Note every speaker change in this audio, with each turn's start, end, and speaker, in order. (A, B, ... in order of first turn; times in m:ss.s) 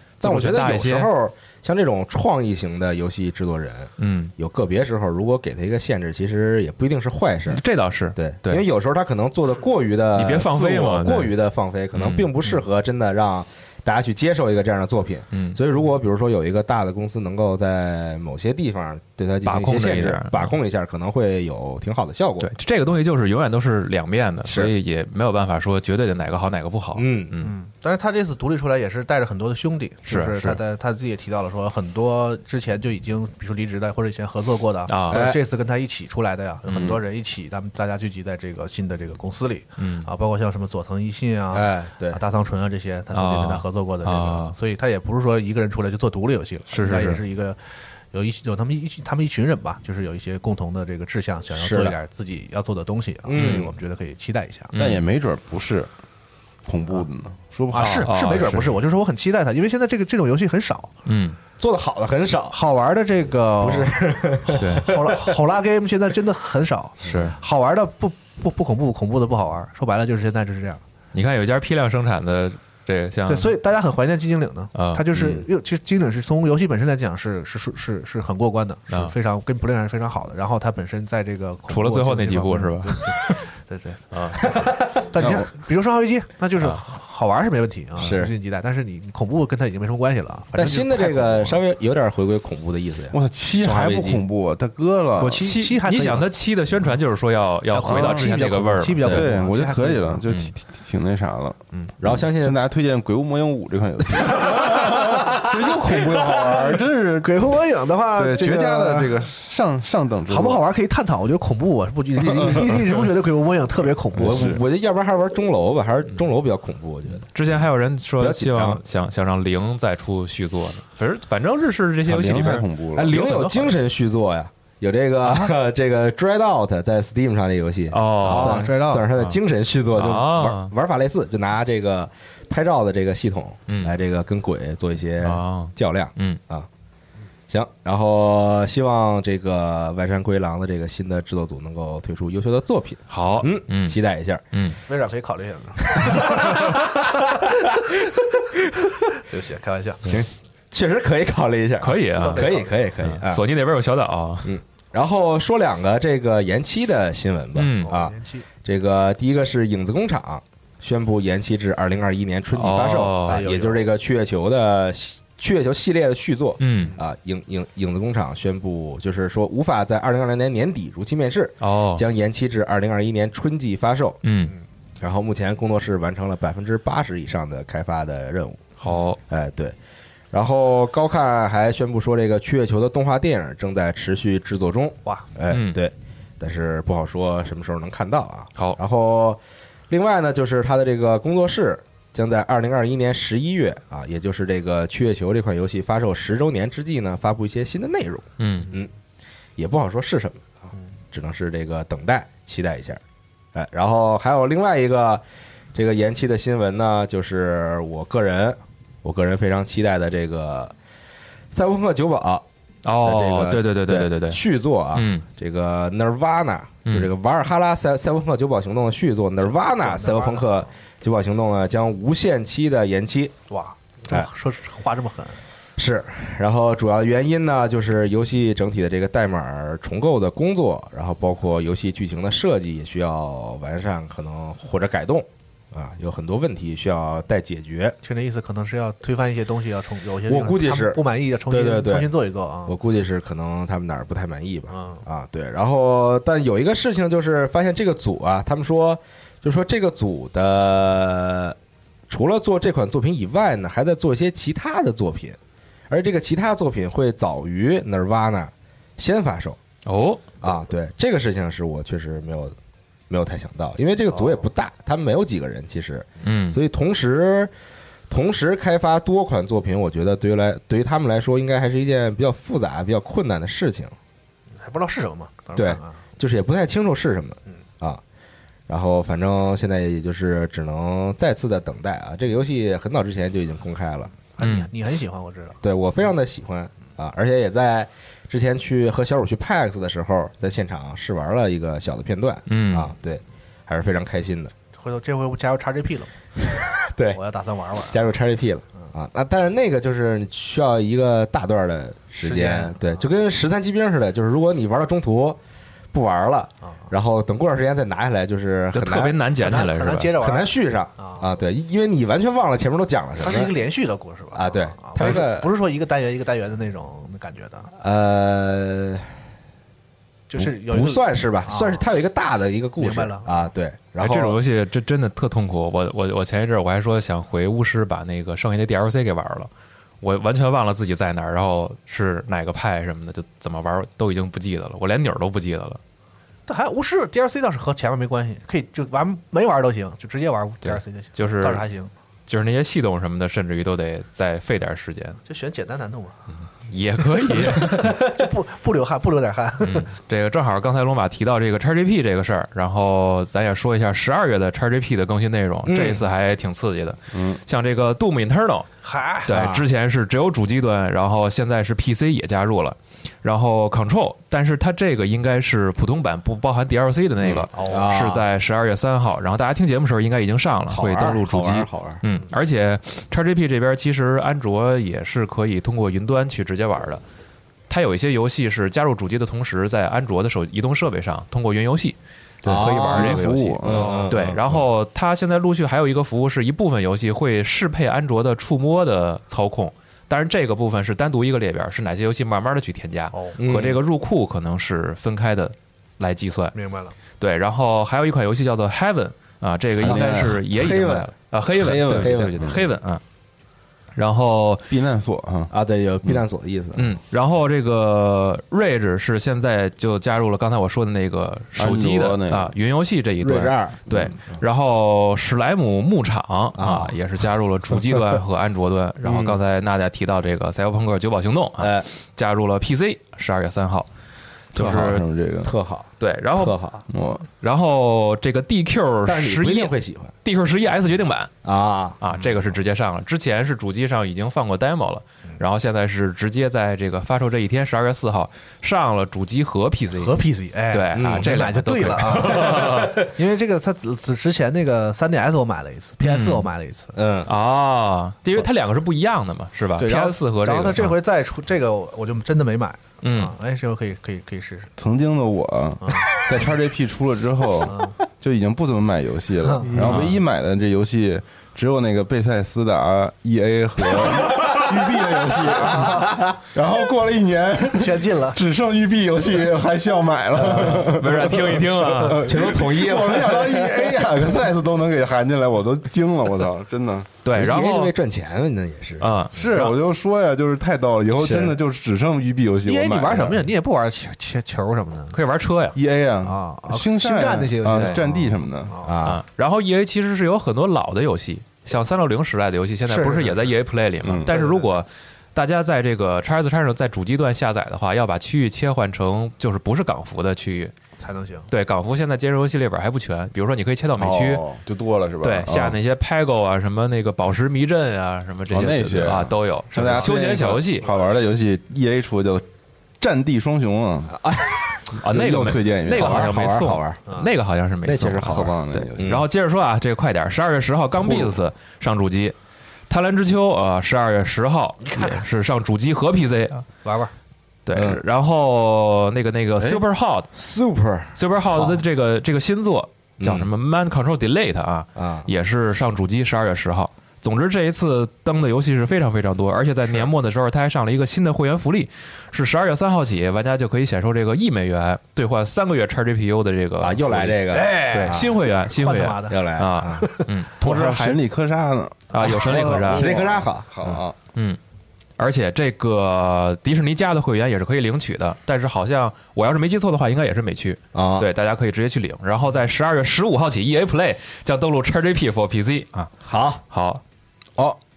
0:00.2-0:01.1 A
0:00.2-0:07.6 B
0:04.0-0:04.3 A
0:07.5-0:08.6 A
0:08.2-0:22.5 B
0:10.2-0:11.3 A
0:11.9-0:12.3 A
0:15.3-0:15.6 A
0:19.4-0:20.5 A
0:22.4-0:27.5 A
0:24.4-0:24.7 B
0:27.0-0:27.3 B
0:27.4-0:47.6 C
0:30.0-0:30.6 A
0:34.9-0:35.3 A
0:35.1-0:35.4 B
0:36.6-0:37.0 A
0:36.8-0:37.0 D
0:39.8-0:40.1 A
0:41.5-0:42.2 B
0:43.1-0:44.6 A
0:46.7-0:47.2 A
0:48.1-0:54.7 C
0:51.6-0:52.0 B
0:53.2-0:53.7 B
0:53.3-0:53.7 A
0:54.7-0:55.1 A
0:54.8-0:55.9 D
0:56.6-0:58.1 D
0:57.7-1:00.9 C
0:57.8-0:58.8 A
1:01.1-1:01.4 A
1:01.6-1:02.6 B
1:02.5-1:10.8 C
1:03.6-1:05.3 B
1:04.6-1:04.9 A
1:07.0-1:07.4 A
1:11.1-1:13.6 A
1:13.3-1:31.6 C
1:14.7-1:15.1 A
1:15.1-1:15.4 B
1:21.7-1:23.4 A
1:24.1-1:24.4 A
1:24.5-1:24.9 B
1:25.2-1:25.5 D
1:28.0-1:28.3 B
1:30.6-1:34.2 B
1:33.1-1:35.5 D
1:35.2-1:36.3 C
1:35.3-1:39.3 A
1:37.7-1:40.2 C
1:37.8-1:47.5 D
1:42.0-1:42.7 B
1:44.3-1:45.2 B
1:45.7-1:49.2 C
1:48.1-1:50.6 D
1:50.3-1:54.6 C
1:52.2-1:52.8 D
1:54.1-1:54.6 D
1:54.2-1:57.3 B
1:57.3-2:03.8 A
1:58.2-1:58.8 B
2:02.0-2:03.2 D
2:02.9-2:16.7 B
2:07.9-2:09.4 A
2:08.2-2:09.1 C
2:09.9-2:10.7 A
2:13.7-2:13.9 A
2:15.2-2:16.4 A
2:17.5-2:24.4 B
2:23.1-2:24.0 A
2:24.5-2:24.8 A
2:24.9-2:27.2 C
2:25.9-2:27.1 B
2:29.2-2:30.0 C
2:30.1-2:33.4 B
2:31.8-2:34.5 A
2:32.2-2:32.7 C
2:34.4-2:54.2 B
2:37.6-2:37.9 A
2:37.8-2:38.4 C
2:42.5-2:43.4 A
2:43.3-2:43.9 C
2:46.6-2:47.0 A
2:51.6-2:52.0 A
2:54.2-2:54.6 A
2:55.0-2:58.6 B
2:58.8-2:59.2 A
2:59.3-2:59.8 B
3:00.3-3:18.9 B
3:05.5-3:05.8 A
3:18.4-3:18.7 A
3:19.6-3:23.0 B
3:23.6-3:25.2 B
3:25.7-3:30.7 B
3:31.5-3:32.4 B
3:32.8-3:34.4 A
3:33.0-3:43.3 B
3:34.9-3:35.2 A
3:39.4-3:40.7 C
3:43.5-3:45.4 C
3:45.8-3:58.0 B
3:58.0-4:02.8 C
4:00.3-4:02.1 B
4:02.7-4:11.6 B
4:04.7-4:05.0 C
4:12.1-4:15.4 B
4:15.9-4:19.6 B
4:19.9-4:20.2 A
4:20.4-4:22.6 B
4:23.1-4:27.5 B
4:24.1-4:24.4 C
4:26.2-4:26.6 A
4:28.1-4:33.9 B
4:34.6-4:36.0 C
4:35.6-4:38.0 B
4:38.7-4:44.1 B
4:44.4-4:45.6 C
4:44.4-4:44.7 A
4:45.6-4:54.5 B
4:52.5-4:52.9 A
4:54.8-4:56.1 C
4:56.4-4:57.2 B
4:57.1-4:58.0 C
4:57.9-5:05.4 B
5:02.2-5:03.0 C
5:05.9-5:09.2 B
5:08.7-5:10.1 A
5:09.4-5:11.2 C
5:10.2-5:13.5 B
5:13.2-5:17.7 C
5:14.3-5:15.5 B
5:17.8-5:19.1 B
5:20.3-5:21.9 C
5:20.4-5:24.4 B
5:22.8-5:23.5 C
5:24.0-5:29.5 A
5:30.0-5:35.8 A
5:36.5-5:41.9 C
5:40.6-5:41.6 A
5:42.3-5:45.2 A
5:45.2-5:46.2 C
5:46.7-5:48.0 A
5:47.3-5:49.9 C
5:49.6-5:58.7 A
5:55.6-5:56.0 B
5:57.1-5:57.4 D
5:58.8-5:59.6 C
5:59.3-6:17.0 A
5:59.3-5:59.6 B
6:07.2-6:07.5 D
6:07.5-6:07.9 C
6:07.7-6:08.3 B
6:10.7-6:12.0 B
6:17.7-6:36.6 A
6:22.4-6:24.4 B
6:22.5-6:24.6 D
6:23.6-6:24.1 C
6:33.4-6:33.8 B
6:36.5-6:36.9 C
6:37.2-6:43.0 A
6:39.8-6:40.4 D
6:39.8-6:42.6 B
6:44.0-6:44.7 A
6:44.7-6:45.5 D
6:45.5-6:47.0 B
6:46.8-7:03.9 A
6:51.6-6:52.5 D
6:53.2-6:54.4 B
6:56.6-6:57.0 B
6:59.0-6:59.4 B
7:01.6-7:01.9 B
7:04.5-7:05.5 D
7:04.6-7:05.0 A
7:05.4-7:06.8 B
7:06.0-7:06.6 A
7:06.9-7:07.2 D
7:07.4-7:09.7 A
7:09.1-7:10.1 B
7:10.2-7:11.3 A
7:11.4-7:12.0 B
7:12.0-7:23.0 A
7:19.9-7:26.9 C
7:20.9-7:21.3 B
7:26.0-7:26.5 A
7:26.9-7:27.3 B
7:27.3-7:31.0 A
7:29.8-7:34.7 C
7:33.0-7:33.3 A
7:34.8-7:57.1 D
7:35.8-7:36.2 C
7:37.6-7:37.9 C
7:39.4-7:39.7 C
7:39.8-7:40.0 B
7:39.8-7:40.2 A
7:45.5-7:46.1 C
7:46.0-7:46.4 B
7:47.8-7:48.4 C
7:50.4-7:51.0 B
7:50.9-7:52.3 A
7:52.2-7:53.9 B
7:57.2-7:57.9 A
7:57.3-7:59.1 B
7:59.0-7:59.8 A
7:59.3-8:03.5 D
8:01.2-8:01.5 B
8:02.6-8:05.2 C
8:05.1-8:05.8 A
8:05.7-8:08.8 D
8:06.2-8:09.0 C
8:07.7-8:08.0 A
8:08.8-8:09.2 B
8:09.0-8:20.7 A
8:12.9-8:13.5 C
8:14.0-8:14.3 D
8:14.3-8:14.7 C
8:21.0-8:21.5 C
8:21.5-8:24.4 A
8:24.0-8:25.8 D
8:25.2-8:30.8 A
8:28.5-8:32.5 D
8:33.0-8:34.1 D
8:34.1-8:35.0 B
8:35.0-8:36.3 D
8:35.0-8:42.4 A
8:35.9-8:37.0 B
8:37.8-8:39.3 B
8:38.2-8:39.2 D
8:41.0-8:41.4 B
8:42.9-8:46.7 A
8:44.8-8:45.2 C
8:46.8-8:47.1 C
8:47.6-8:50.3 A
8:47.8-8:48.0 B
8:50.3-8:51.8 B
8:51.1-9:11.2 A
8:53.2-8:53.5 B
8:55.0-8:55.3 B
9:06.8-9:08.3 B
9:07.5-9:11.0 C
9:09.3-9:10.1 B
9:10.6-9:14.2 D
9:12.1-9:13.1 A
9:12.3-9:12.6 C
9:12.9-9:14.0 B
9:15.2-9:26.1 A
9:20.9-9:21.3 B
9:26.2-9:26.6 B
9:26.7-9:27.0 A